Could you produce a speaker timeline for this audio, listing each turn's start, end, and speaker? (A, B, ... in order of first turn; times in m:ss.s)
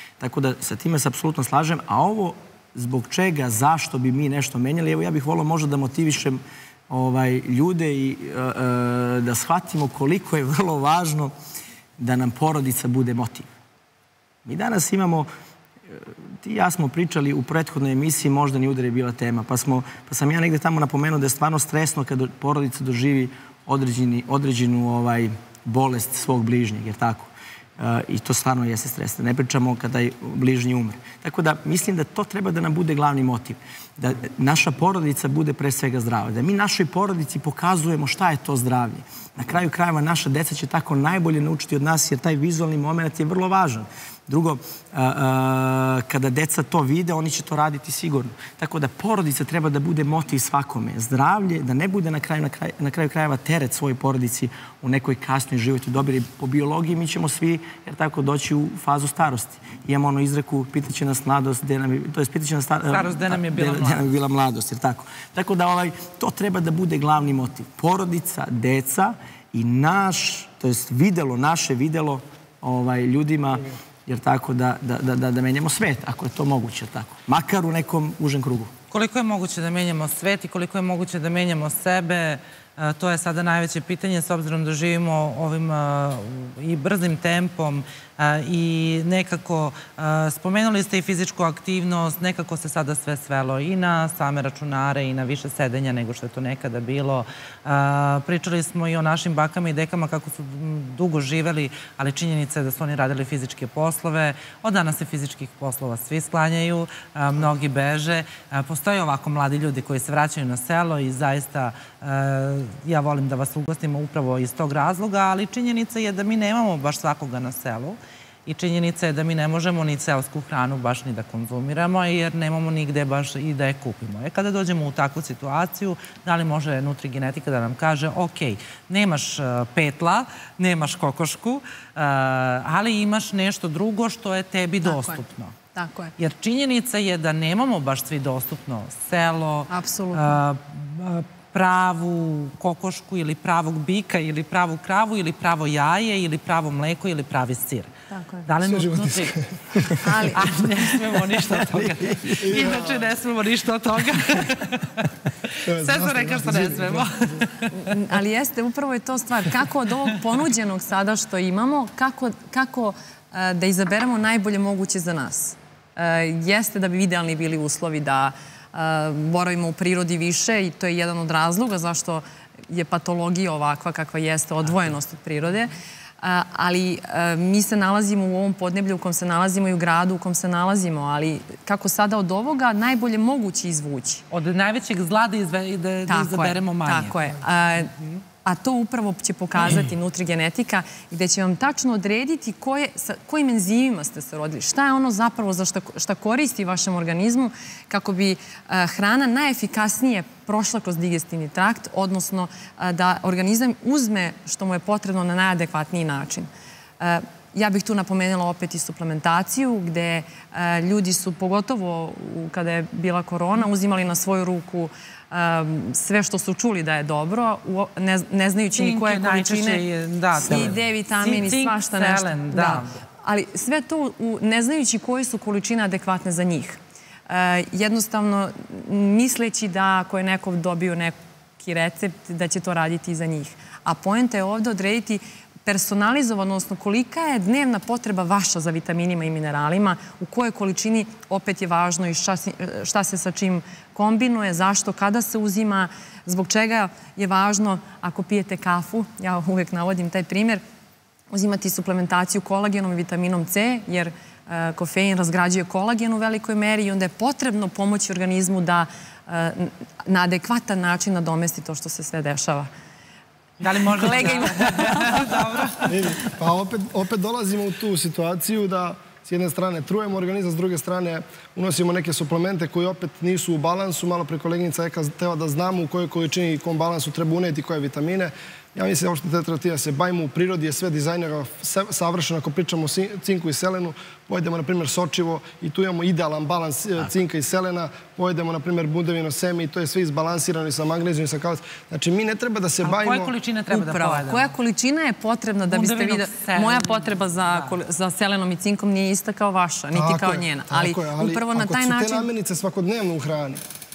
0:00.2-0:11.3 A
0:12.0-0:13.5 A
0:14.4-0:15.3 A
0:15.9-1:18.7 A
1:02.9-1:04.0 B
1:18.9-2:15.6 B
2:14.8-2:15.2 C
2:15.7-2:16.1 C
2:16.2-2:27.9 B
2:19.7-2:20.4 C
2:28.1-2:28.5 C
2:28.4-2:37.8 B
2:28.6-2:30.0 D
2:30.0-2:31.0 C
2:31.5-2:32.8 A
2:32.4-2:33.1 D
2:35.6-2:37.1 D
2:37.7-3:04.2 C
3:04.3-3:07.2 B
3:06.1-3:07.9 C
3:08.4-3:26.5 C
3:27.0-3:39.8 C
3:38.8-3:42.9 B
3:40.4-4:10.6 C
3:40.4-3:40.8 A
4:11.3-4:22.7 C
4:23.6-4:26.1 B
4:23.8-4:25.5 C
4:25.9-4:53.3 D
4:52.8-4:54.5 B
4:53.7-5:02.3 C
4:55.7-4:57.7 B
4:59.9-5:03.6 D